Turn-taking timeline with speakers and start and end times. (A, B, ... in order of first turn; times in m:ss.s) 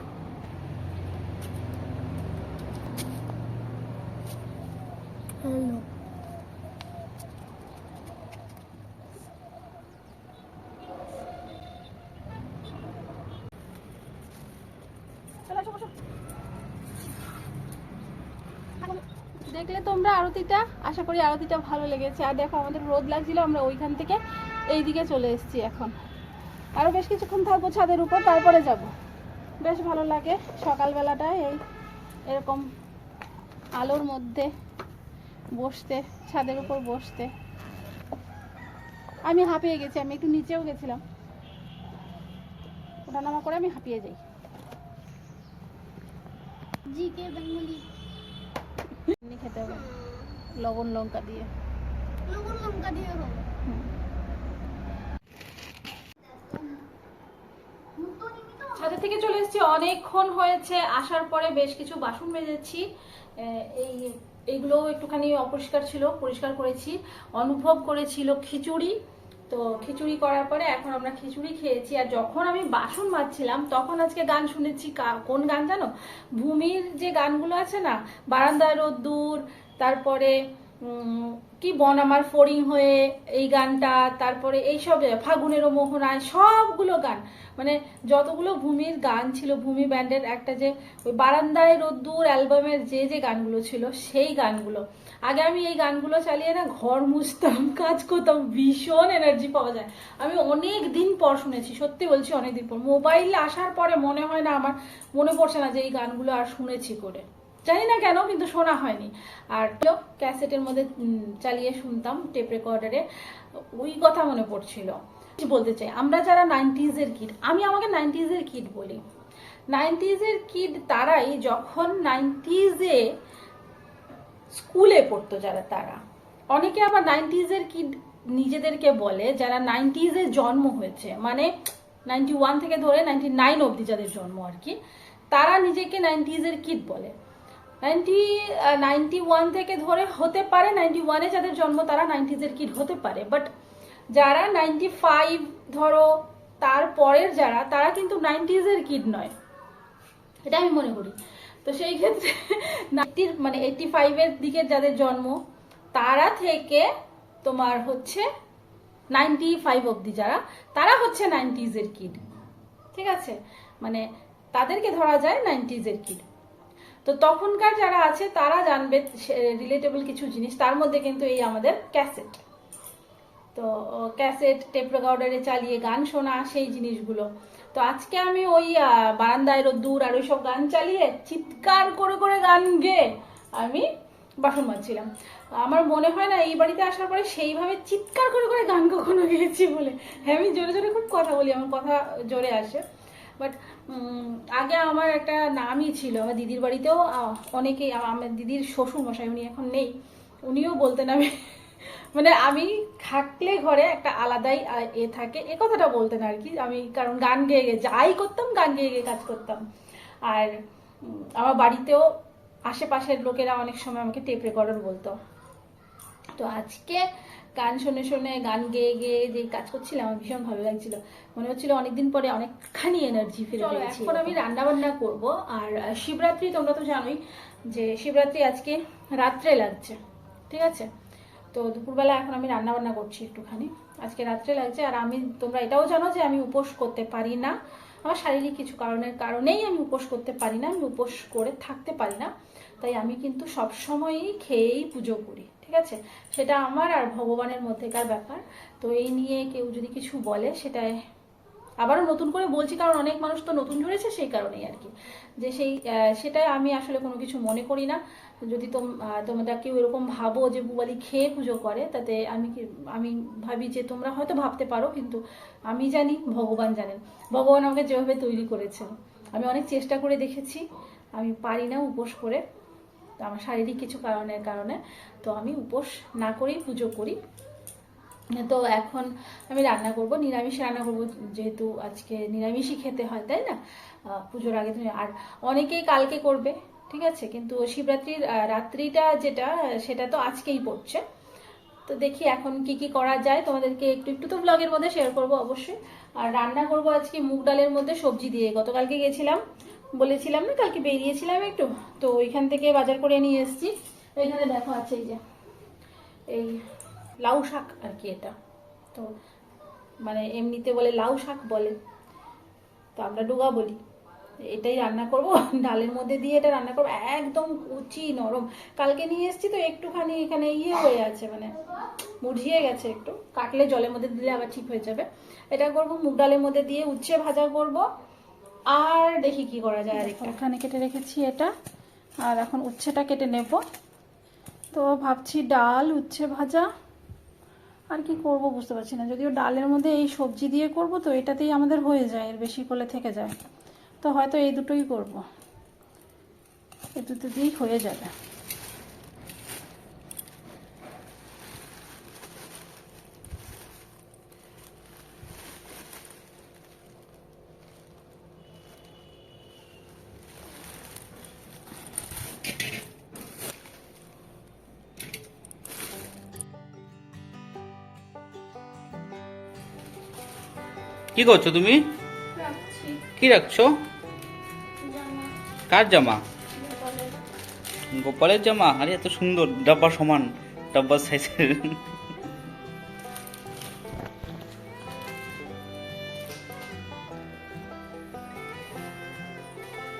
0:05.4-0:05.8 A
0:15.5-0:15.9 B
0:18.8-0:24.2 B
0:24.7-0:25.9 B
0:26.8-0:28.9 B
0:29.6-0:31.6 B
0:32.3-0:32.7 B
0:33.8-0:34.5 B
0:35.5-0:37.3 B
0:39.2-0:41.0 B
0:43.0-0:44.2 B
0:46.9-0:47.8 A
0:49.0-0:49.8 B
0:49.7-0:50.3 A
0:50.6-0:51.5 B
0:52.3-0:53.5 A
0:56.3-0:56.8 A
0:58.0-0:58.7 A
0:58.7-1:02.8 B
1:03.4-1:08.9 B
1:09.5-1:59.0 B
1:59.7-2:03.0 B
2:04.5-2:06.0 B
2:06.5-2:11.5 B
2:12.0-2:14.8 B
2:15.3-2:17.1 B
2:17.8-2:23.5 B
2:24.1-2:29.3 B
2:30.4-2:35.4 B
2:35.9-2:36.9 B
2:37.4-2:38.3 B
2:39.1-2:42.2 B
2:42.9-2:46.2 B
2:47.0-2:52.4 B
2:53.5-3:03.9 B
3:04.4-3:05.1 B
3:05.6-3:12.8 B
3:13.4-3:19.9 B
3:20.4-3:29.6 B
3:30.2-3:32.1 B
3:32.7-3:35.2 B
3:36.4-3:50.0 B
3:50.5-3:50.9 B
3:51.5-4:10.9 B
4:11.8-4:30.6 B
4:31.2-4:32.4 B
4:33.2-4:37.2 B
4:38.3-4:51.0 B
4:51.8-4:59.4 B
4:59.9-5:05.2 B
5:06.3-5:06.6 B
5:07.2-5:08.3 B
5:10.0-5:11.8 B
5:13.0-5:13.8 B
5:14.5-5:21.6 B
5:22.2-5:27.8 B
5:28.7-5:31.5 B
5:32.2-5:33.6 B
5:34.7-5:36.7 B
5:37.9-5:43.3 B
5:44.0-5:45.2 B
5:47.0-5:48.1 B
6:11.2-6:11.8 C
6:12.4-6:13.0 B
6:13.2-6:13.7 C
6:14.9-6:15.3 A
6:15.7-6:16.2 C
6:16.6-6:17.1 B
6:17.9-6:21.8 C